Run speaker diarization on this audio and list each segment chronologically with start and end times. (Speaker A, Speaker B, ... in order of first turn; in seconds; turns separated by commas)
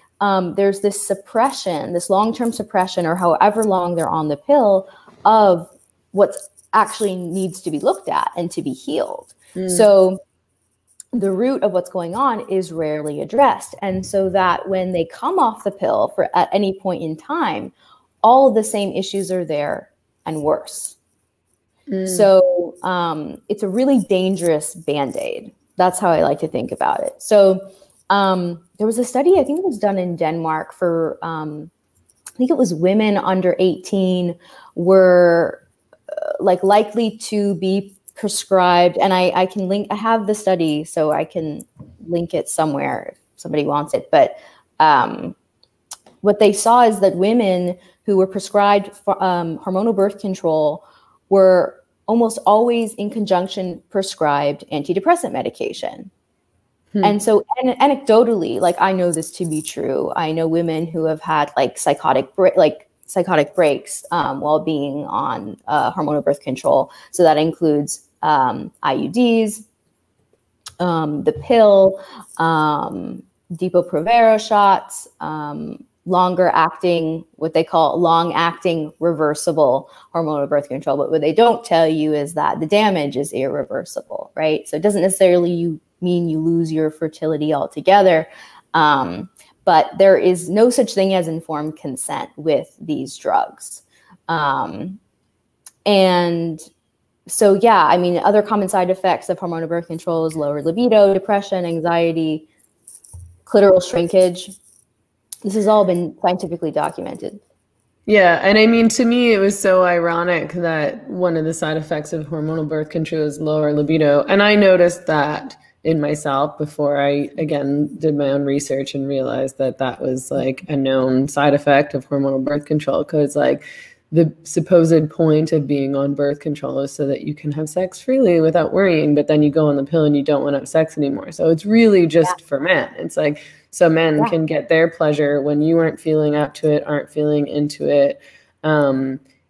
Speaker A: 0.2-10.2, Speaker B: 9.6-9.9, Speaker A: 11.1-21.0, Speaker B: 21.9-22.3, Speaker A: 22.1-31.7, Speaker A: 32.4-45.4, Speaker A: 46.2-56.1, Speaker B: 56.9-57.2, Speaker A: 57.0-69.7, Speaker A: 70.8-95.0, Speaker A: 95.9-96.6, Speaker A: 97.3-102.5, Speaker A: 103.5-104.5, Speaker A: 105.5-107.4, Speaker B: 108.1-139.2